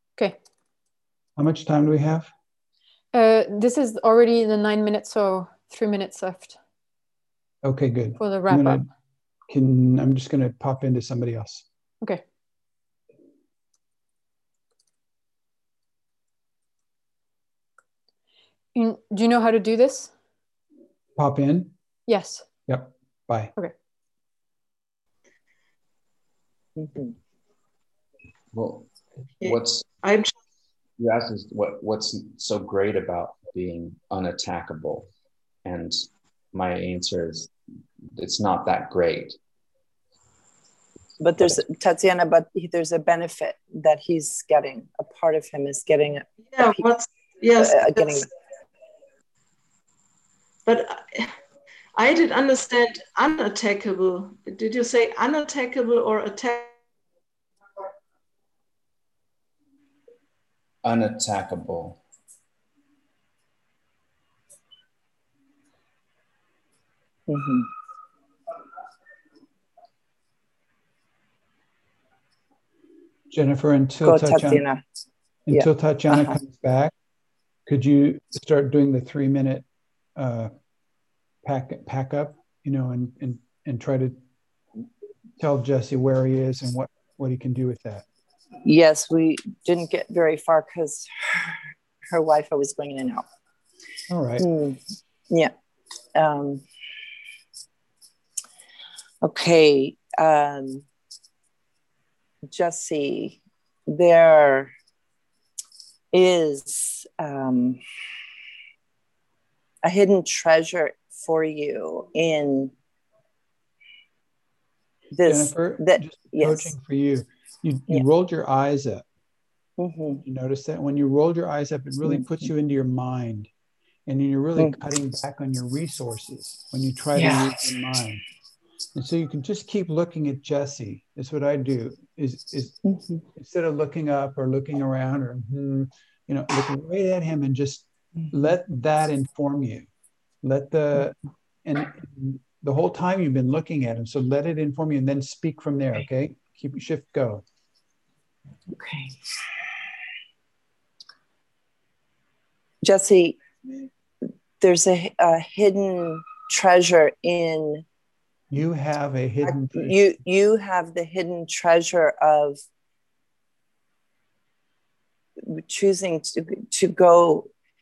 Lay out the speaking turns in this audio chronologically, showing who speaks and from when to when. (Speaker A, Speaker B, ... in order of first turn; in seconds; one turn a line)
Speaker A: 1.4-2.3
Speaker B: 3.1-6.6
Speaker A: 7.6-8.9
Speaker B: 8.2-8.8
Speaker A: 9.5-11.7
Speaker B: 18.7-20.1
Speaker A: 21.2-21.7
Speaker B: 22.1-22.5
Speaker A: 22.7-23.5
Speaker C: 26.8-27.1
Speaker D: 28.5-29.9
Speaker E: 29.4-30.3
Speaker D: 31.0-35.1
Speaker D: 35.6-37.5
Speaker D: 38.1-39.4
Speaker C: 41.2-46.9
Speaker E: 46.5-48.3
Speaker C: 47.6-48.3
Speaker E: 50.6-51.3
Speaker E: 51.9-56.7
Speaker D: 60.8-62.0
Speaker C: 67.3-67.7
Speaker A: 73.3-74.6
Speaker C: 74.0-74.8
Speaker A: 75.5-76.9
Speaker C: 75.5-76.4
Speaker A: 77.7-79.6
Speaker A: 80.2-80.5
Speaker A: 81.4-84.2
Speaker A: 85.4-88.0
Speaker C: 88.6-93.2
Speaker A: 94.1-94.5
Speaker C: 94.4-94.8
Speaker C: 96.1-96.6
Speaker C: 99.2-100.8
Speaker C: 102.5-104.7
Speaker C: 106.1-107.8
Speaker C: 109.8-112.7
Speaker C: 115.1-116.7
Speaker A: 115.3-119.0
Speaker C: 119.8-120.2
Speaker A: 120.2-123.5
Speaker C: 122.0-122.5
Speaker A: 124.1-128.2
Speaker C: 127.2-127.4
Speaker A: 128.9-132.8
Speaker C: 132.8-133.2
Speaker A: 133.3-139.9
Speaker A: 140.4-147.4
Speaker C: 148.7-149.2
Speaker C: 152.8-153.4
Speaker C: 154.6-157.8
Speaker A: 158.5-159.9
Speaker C: 159.4-162.6
Speaker C: 165.4-167.5